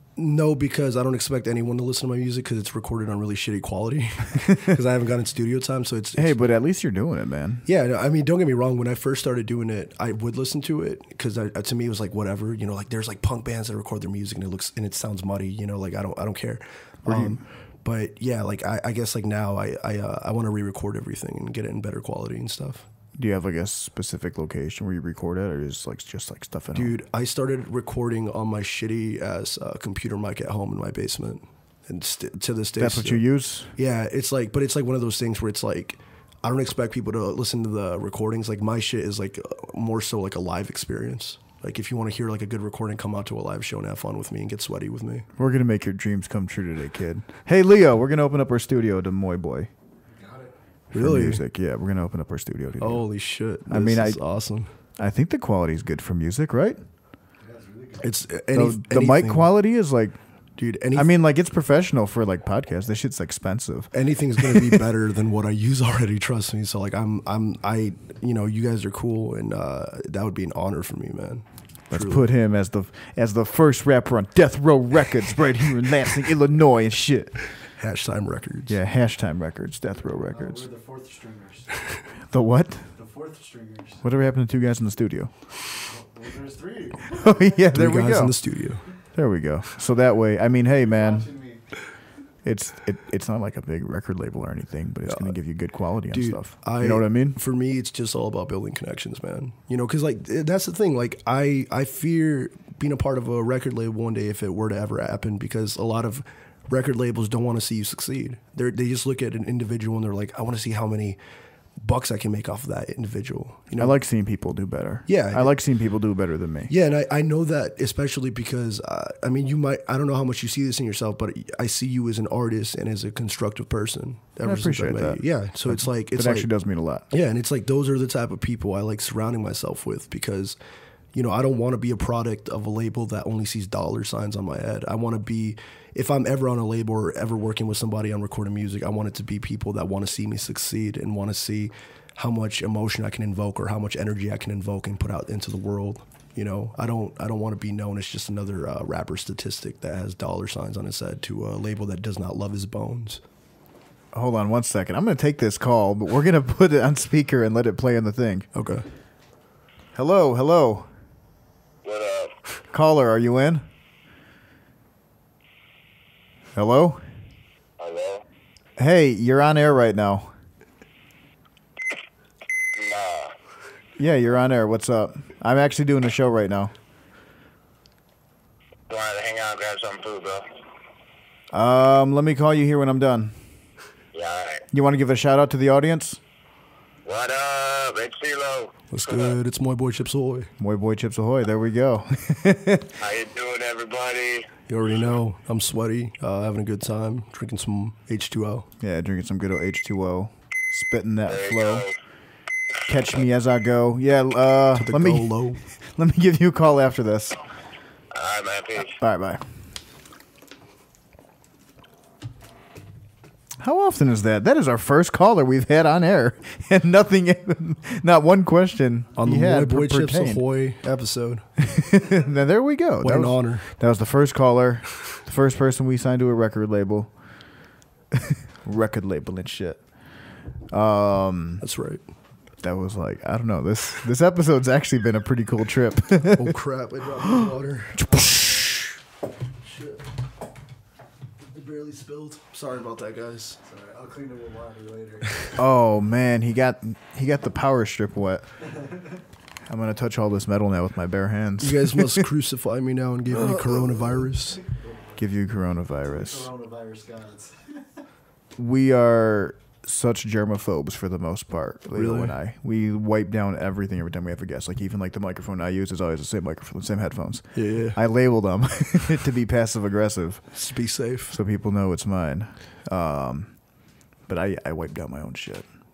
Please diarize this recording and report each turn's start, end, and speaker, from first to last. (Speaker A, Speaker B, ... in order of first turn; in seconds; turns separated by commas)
Speaker A: 0.1-6.4, Speaker B: 6.2-7.7, Speaker A: 7.7-22.9, Speaker B: 17.1-17.4, Speaker B: 23.1-26.9, Speaker A: 26.7-33.2, Speaker B: 32.8-33.7, Speaker A: 33.7-45.3, Speaker B: 45.4-49.7, Speaker C: 50.1-50.5, Speaker B: 50.9-53.0, Speaker A: 50.9-51.4, Speaker A: 52.8-54.7, Speaker B: 53.7-54.2, Speaker B: 55.0-56.8, Speaker C: 57.4-58.1, Speaker A: 58.0-59.5, Speaker B: 58.5-60.2, Speaker A: 60.6-61.1, Speaker B: 60.9-64.8, Speaker A: 63.9-72.3, Speaker B: 71.9-77.4, Speaker A: 77.8-78.8, Speaker B: 78.7-80.6, Speaker C: 80.1-81.9, Speaker B: 82.3-82.9, Speaker C: 82.9-84.0, Speaker B: 84.0-85.3, Speaker C: 85.8-87.5, Speaker B: 87.1-88.4, Speaker A: 87.7-88.8, Speaker B: 89.1-91.3, Speaker C: 90.6-91.6, Speaker B: 92.4-97.4, Speaker A: 95.0-95.3, Speaker A: 96.1-111.2, Speaker A: 111.8-114.0, Speaker B: 113.8-116.7, Speaker A: 115.1-115.5, Speaker A: 116.7-126.5, Speaker B: 124.4-127.1, Speaker A: 127.1-130.6, Speaker A: 131.1-153.2, Speaker B: 154.1-158.5, Speaker A: 158.5-158.8, Speaker B: 159.9-160.9, Speaker D: 161.8-162.3, Speaker B: 162.7-163.6, Speaker B: 166.5-167.0, Speaker D: 167.8-168.2, Speaker B: 168.8-170.3, Speaker D: 172.7-173.3, Speaker B: 174.0-176.7, Speaker D: 178.9-180.5, Speaker B: 181.5-183.4, Speaker D: 184.1-184.6, Speaker B: 184.7-186.2, Speaker D: 187.0-189.3, Speaker A: 188.9-190.5, Speaker B: 190.6-192.9, Speaker D: 193.0-194.5, Speaker A: 194.7-198.7, Speaker B: 198.8-201.9, Speaker D: 201.3-201.9, Speaker B: 202.9-207.4, Speaker A: 204.7-205.6, Speaker D: 208.1-209.0, Speaker B: 208.8-209.4, Speaker B: 213.6-220.4, Speaker A: 219.2-221.5, Speaker B: 221.6-227.1, Speaker A: 223.0-223.7, Speaker B: 228.1-229.8, Speaker B: 230.7-231.6, Speaker A: 231.6-232.0, Speaker B: 232.6-236.6, Speaker A: 236.3-238.3, Speaker B: 238.0-238.7, Speaker A: 239.6-240.0, Speaker A: 241.5-243.6, Speaker C: 243.6-245.6, Speaker B: 245.6-248.5, Speaker B: 249.7-252.3, Speaker A: 251.6-254.6, Speaker B: 253.3-254.0, Speaker B: 255.2-256.5, Speaker C: 256.0-257.8, Speaker B: 258.6-270.5, Speaker A: 261.9-262.3, Speaker A: 267.5-268.0, Speaker A: 270.5-271.4, Speaker B: 271.3-273.5, Speaker B: 274.3-275.6